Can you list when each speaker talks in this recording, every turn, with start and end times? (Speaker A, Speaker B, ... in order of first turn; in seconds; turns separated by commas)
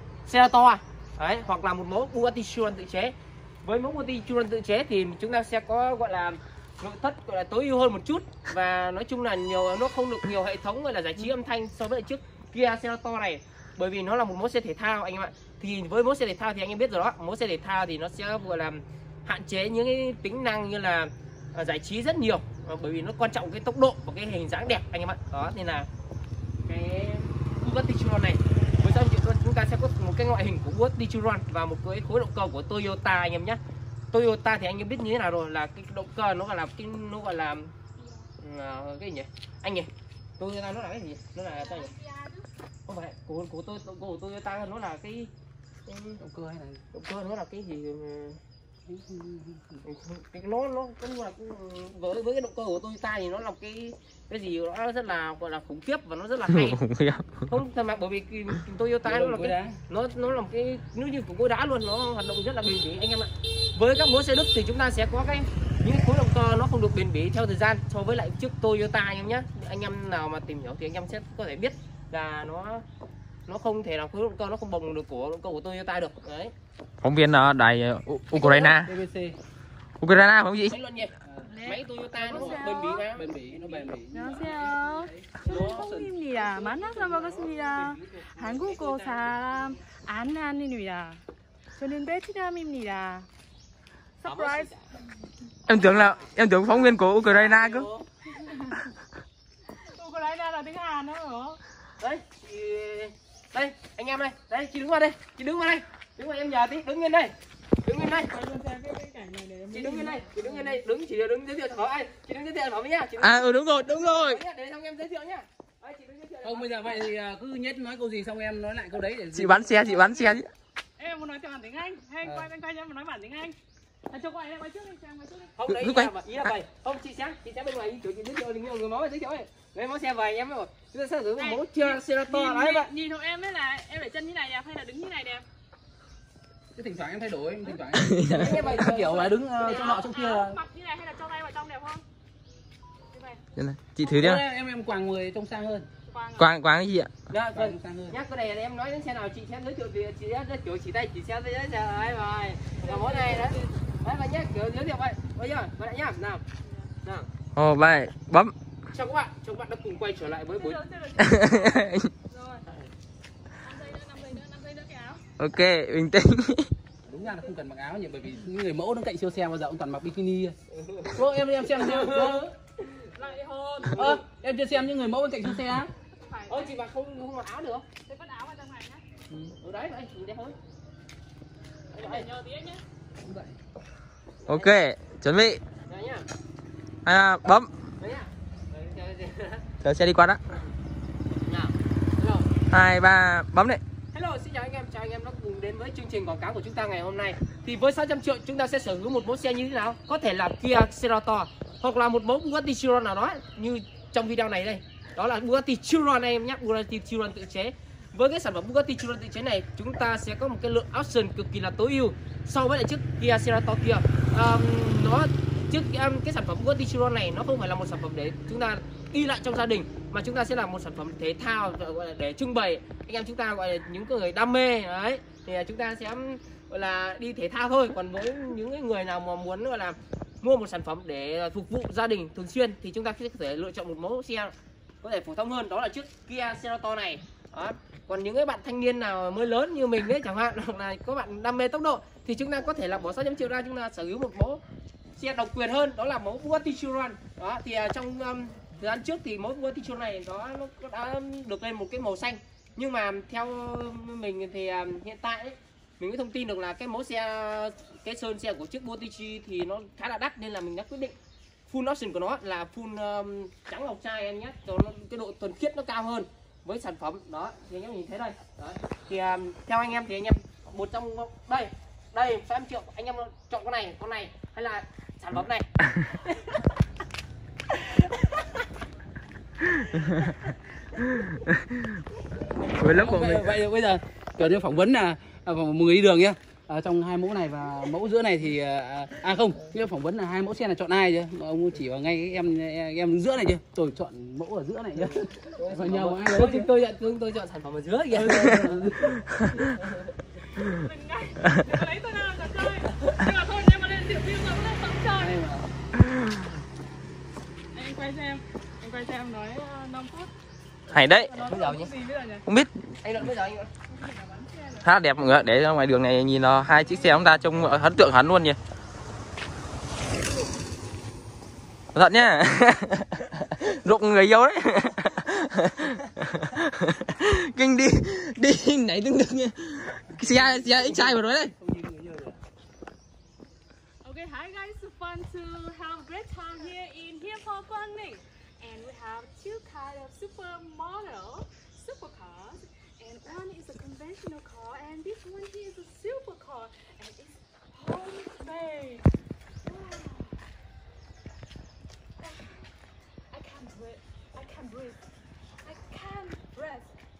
Speaker A: 0.3-25.9, Speaker A: 26.6-33.6, Speaker A: 34.1-37.7, Speaker B: 38.0-38.3, Speaker A: 38.4-41.9, Speaker B: 41.5-42.5, Speaker A: 42.9-45.3, Speaker A: 45.9-46.2, Speaker C: 46.2-46.8, Speaker A: 46.9-48.4, Speaker C: 48.9-49.8, Speaker A: 49.8-56.8, Speaker D: 56.5-57.5, Speaker A: 57.5-72.8, Speaker C: 59.0-59.8, Speaker A: 73.5-76.5, Speaker D: 77.0-78.9, Speaker A: 78.4-78.7, Speaker C: 78.7-79.4, Speaker D: 80.0-80.8, Speaker A: 80.7-83.9, Speaker C: 81.2-81.5, Speaker B: 81.5-83.1, Speaker C: 82.3-88.8, Speaker B: 84.1-91.2, Speaker A: 86.4-89.3, Speaker B: 91.8-93.3, Speaker B: 94.2-94.7, Speaker A: 94.2-94.9, Speaker D: 95.7-97.9, Speaker A: 95.7-98.0, Speaker B: 98.3-98.8, Speaker B: 99.8-101.6, Speaker A: 102.0-108.3, Speaker B: 108.0-110.8, Speaker A: 109.7-117.1, Speaker D: 113.2-114.4, Speaker C: 116.4-120.0, Speaker D: 119.3-120.5, Speaker B: 120.0-120.3, Speaker B: 121.0-123.5, Speaker B: 124.1-125.7, Speaker A: 125.6-132.9, Speaker D: 125.7-126.5, Speaker B: 131.4-135.5, Speaker C: 136.8-140.6, Speaker D: 137.9-138.5, Speaker A: 138.3-140.1, Speaker B: 139.6-142.1, Speaker B: 143.1-143.4, Speaker D: 143.6-144.4, Speaker C: 144.0-145.9, Speaker B: 146.1-146.5, Speaker D: 146.4-147.1, Speaker C: 147.3-148.2, Speaker A: 147.6-156.4, Speaker B: 152.8-154.1, Speaker B: 156.6-156.9, Speaker A: 157.0-157.3, Speaker D: 157.6-158.5, Speaker A: 158.9-160.8, Speaker B: 160.5-162.7, Speaker D: 161.2-162.1, Speaker B: 163.6-165.2, Speaker D: 165.4-166.7, Speaker C: 167.1-170.6, Speaker B: 167.1-167.5, Speaker A: 170.7-172.9, Speaker C: 171.1-172.5, Speaker B: 173.1-174.2, Speaker C: 173.9-175.9, Speaker A: 173.9-174.2, Speaker B: 176.2-176.8, Speaker A: 176.5-177.8, Speaker B: 178.1-179.0, Speaker A: 179.6-180.6, Speaker B: 181.9-182.8, Speaker A: 181.9-182.3, Speaker C: 183.2-183.6, Speaker A: 184.4-184.8, Speaker D: 184.5-185.6, Speaker A: 185.9-186.3, Speaker D: 187.1-187.7, Speaker A: 188.0-189.7, Speaker D: 189.8-190.4, Speaker A: 191.4-192.5, Speaker D: 192.7-193.8, Speaker A: 194.1-244.6, Speaker A: 245.2-261.1, Speaker A: 261.7-275.7, Speaker D: 279.7-280.3, Speaker D: 281.0-282.0, Speaker C: 282.6-296.7, Speaker D: 282.8-283.6, Speaker A: 295.1-300.1, Speaker C: 298.1-299.3, Speaker B: 300.6-305.4, Speaker C: 305.2-305.7, Speaker B: 307.7-310.3, Speaker D: 310.9-311.3, Speaker B: 311.0-312.4, Speaker A: 311.4-311.9, Speaker A: 313.0-313.7, Speaker B: 313.9-314.9, Speaker D: 314.8-318.6, Speaker B: 316.7-317.8, Speaker D: 321.9-331.5, Speaker C: 330.1-332.4, Speaker B: 334.0-349.1, Speaker B: 349.6-350.5, Speaker B: 352.2-352.7, Speaker B: 353.3-355.1, Speaker B: 355.6-357.0